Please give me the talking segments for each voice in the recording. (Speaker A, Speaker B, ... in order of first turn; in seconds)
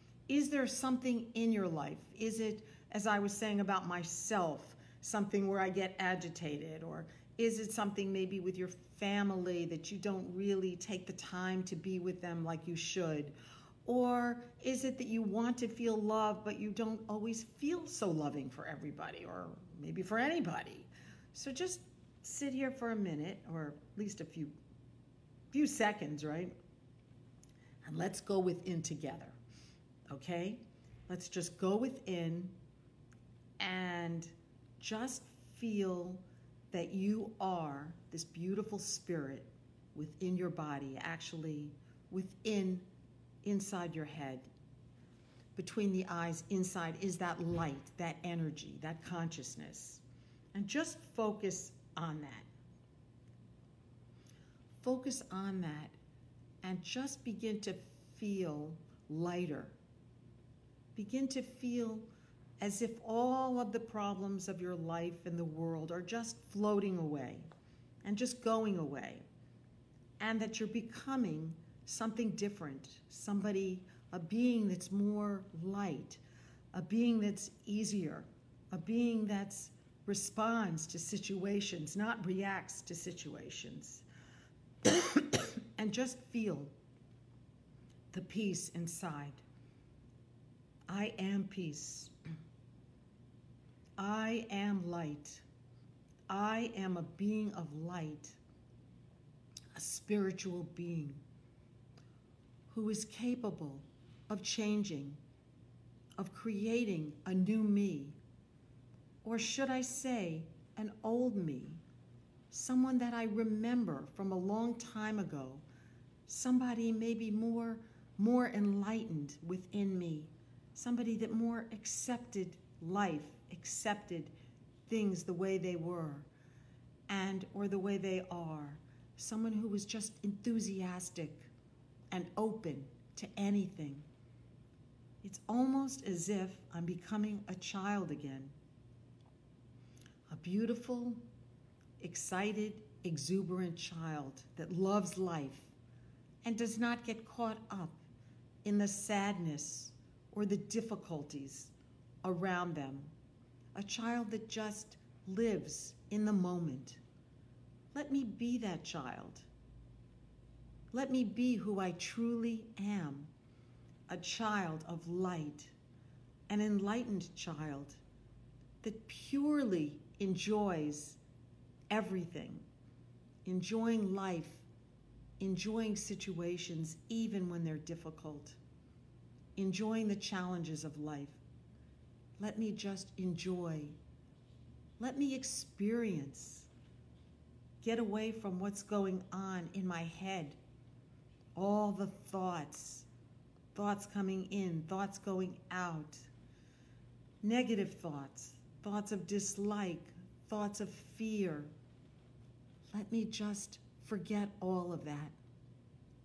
Speaker A: 0.3-24.6, 25.5-26.5, 27.8-29.4, 30.1-32.5, 33.6-42.9, 43.4-44.5, 45.6-50.0, 50.5-52.5, 54.8-56.0, 56.6-59.8, 61.0-62.1, 62.6-67.5, 68.0-69.2, 70.2-76.2, 76.7-84.1, 84.8-86.7, 88.1-89.4, 90.9-92.1, 94.0-95.5, 96.3-98.4, 99.8-101.2, 102.7-105.2, 106.2-108.2, 109.2-111.8, 112.5-115.6, 116.3-124.3, 124.9-126.3, 127.1-131.5, 132.1-134.1, 135.2-138.6, 140.3-141.2, 142.0-145.7, 146.4-148.0, 148.6-153.1, 153.8-157.0, 157.9-159.5, 160.9-163.3, 164.1-165.7, 166.5-168.0, 168.8-171.2, 171.9-172.7, 173.4-174.7, 175.4-178.6, 179.6-181.4, 182.4-184.0, 185.0-186.7, 187.8-190.6, 191.6-193.1, 193.8-196.3, 197.4-201.7, 202.9-205.4